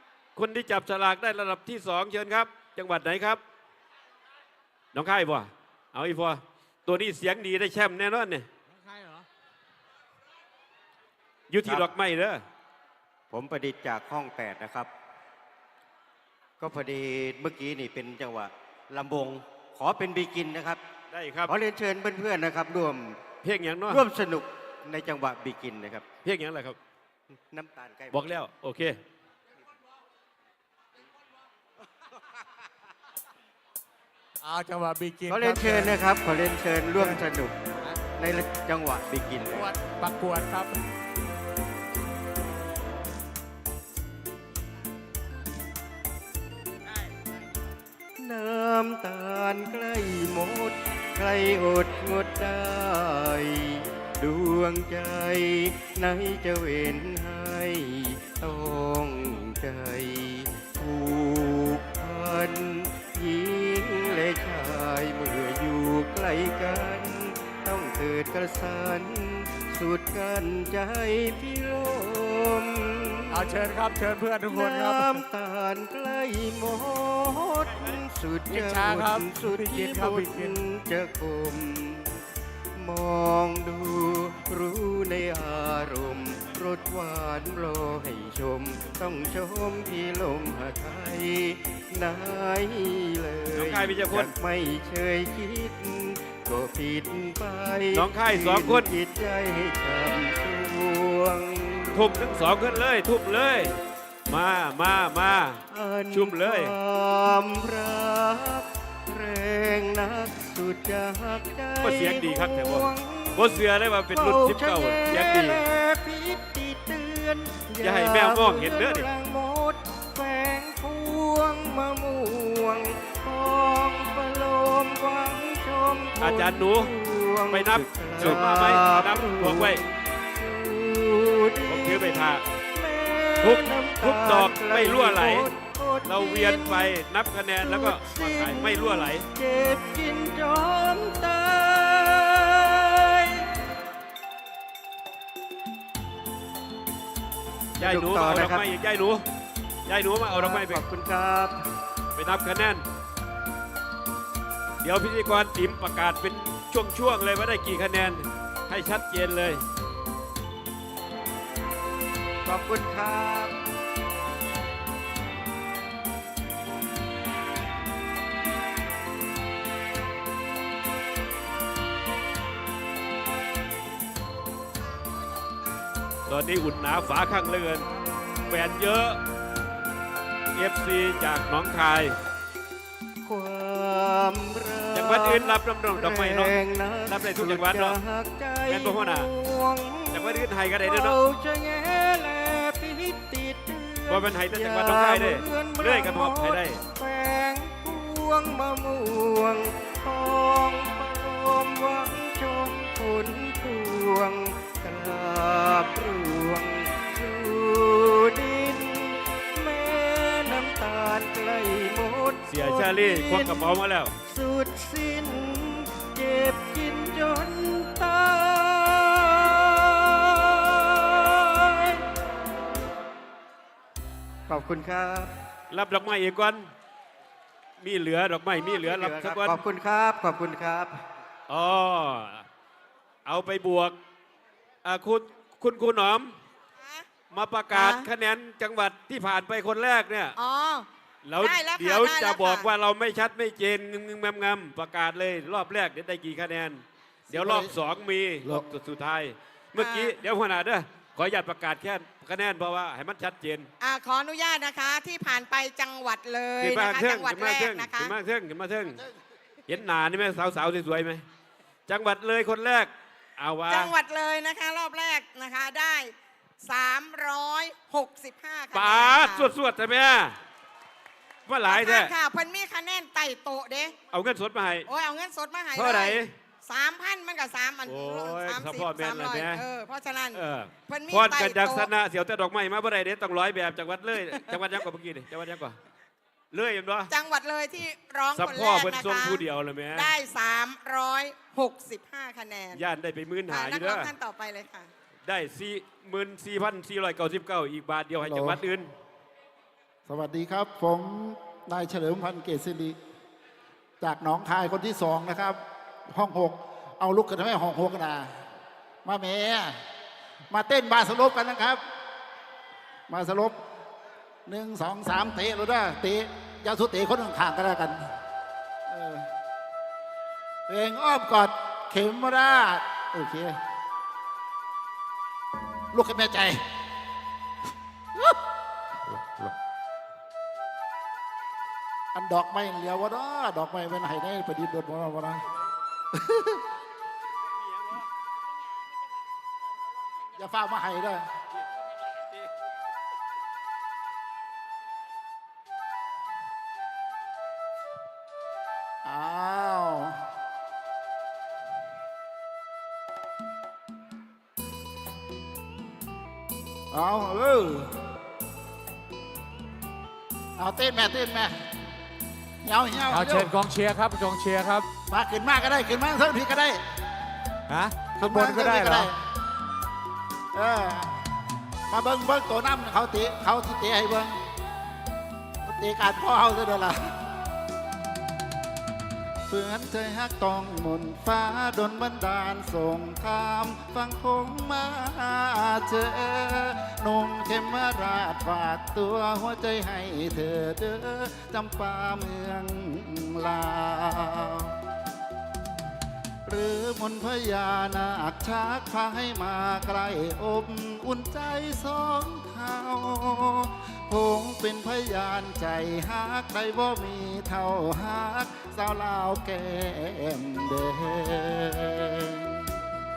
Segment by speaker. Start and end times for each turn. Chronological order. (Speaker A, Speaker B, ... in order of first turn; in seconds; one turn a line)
Speaker A: 0.3-3.4
Speaker A: 4.9-8.5
Speaker B: 8.8-9.2
Speaker A: 11.5-12.4
Speaker C: 13.3-14.9
Speaker C: 16.6-20.8
Speaker A: 21.1-21.5
Speaker C: 21.5-23.2
Speaker A: 23.4-24.0
Speaker C: 23.9-26.1
Speaker A: 26.2-26.8
Speaker C: 27.5-28.4
Speaker A: 28.1-29.0
Speaker B: 34.4-36.0
Speaker C: 35.3-39.7
Speaker B: 39.5-40.8
Speaker C: 48.2-73.5
Speaker B: 73.3-75.2
Speaker C: 74.4-82.2
Speaker B: 78.5-80.6
Speaker C: 82.8-102.0
Speaker A: 93.5-94.3
Speaker A: 97.9-98.9
Speaker A: 101.9-103.8
Speaker A: 104.3-106.7
Speaker C: 105.7-113.5
Speaker A: 111.8-115.6
Speaker C: 114.1-132.2
Speaker A: 117.8-119.1
Speaker A: 126.2-126.9
Speaker A: 127.5-129.8
Speaker A: 131.7-132.4
Speaker C: 132.7-136.9
Speaker A: 133.4-135.5
Speaker A: 136.0-139.3
Speaker C: 137.6-143.5
Speaker C: 147.8-148.6
Speaker A: 147.8-149.2
Speaker A: 149.9-150.8
Speaker C: 150.3-151.6
Speaker A: 152.2-152.8
Speaker A: 154.8-159.6
Speaker C: 162.4-163.6
Speaker A: 176.3-177.9
Speaker A: 178.5-179.2
Speaker A: 180.5-182.2
Speaker C: 183.2-213.7
Speaker A: 184.9-186.6
Speaker A: 187.1-188.0
Speaker A: 188.7-189.3
Speaker A: 190.1-191.2
Speaker A: 194.1-196.8
Speaker A: 212.5-214.1
Speaker C: 214.3-222.0
Speaker C: 224.5-225.3
Speaker A: 225.7-226.7
Speaker A: 227.8-229.6
Speaker C: 228.5-231.0
Speaker A: 231.5-232.4
Speaker A: 233.2-233.9
Speaker A: 234.8-236.3
Speaker D: 236.8-237.1
Speaker A: 237.3-240.3
Speaker D: 237.7-238.1
Speaker D: 240.4-240.9
Speaker A: 241.2-253.7
Speaker D: 241.4-242.7
Speaker E: 247.3-247.7
Speaker D: 249.8-250.2
Speaker D: 253.8-258.1
Speaker A: 256.6-259.0
Speaker A: 259.7-261.2
Speaker A: 261.9-263.9
Speaker D: 263.7-269.5
Speaker A: 268.7-270.4
Speaker A: 271.5-272.1
Speaker D: 271.6-273.9
Speaker A: 274.1-274.9
Speaker D: 274.9-281.9
Speaker A: 275.7-276.3
Speaker A: 277.9-279.6
Speaker A: 280.3-285.8
Speaker A: 286.5-287.1
Speaker D: 287.1-289.4
Speaker A: 288.3-290.1
Speaker D: 289.9-292.8
Speaker A: 292.7-294.1
Speaker D: 293.5-294.9
Speaker A: 295.2-298.9
Speaker E: 298.2-298.6
Speaker E: 300.1-303.0
Speaker E: 304.0-308.3
Speaker E: 309.0-309.8
Speaker E: 310.5-311.8
Speaker E: 313.1-313.6
Speaker E: 314.4-318.1
Speaker E: 318.9-319.3
Speaker E: 320.7-323.6
Speaker E: 325.9-326.6
Speaker E: 332.1-335.5
Speaker E: 336.1-336.6
Speaker E: 340.3-341.3
Speaker E: 349.0-350.2
Speaker E: 356.9-357.9
Speaker E: 360.6-361.6
Speaker E: 362.6-363.5
Speaker B: 363.1-364.9
Speaker E: 365.1-366.8
Speaker B: 367.7-369.1
Speaker E: 368.2-369.2
Speaker E: 370.5-371.3
Speaker E: 371.9-374.4
Speaker E: 375.6-377.2
Speaker E: 379.5-394.8
Speaker E: 396.4-412.7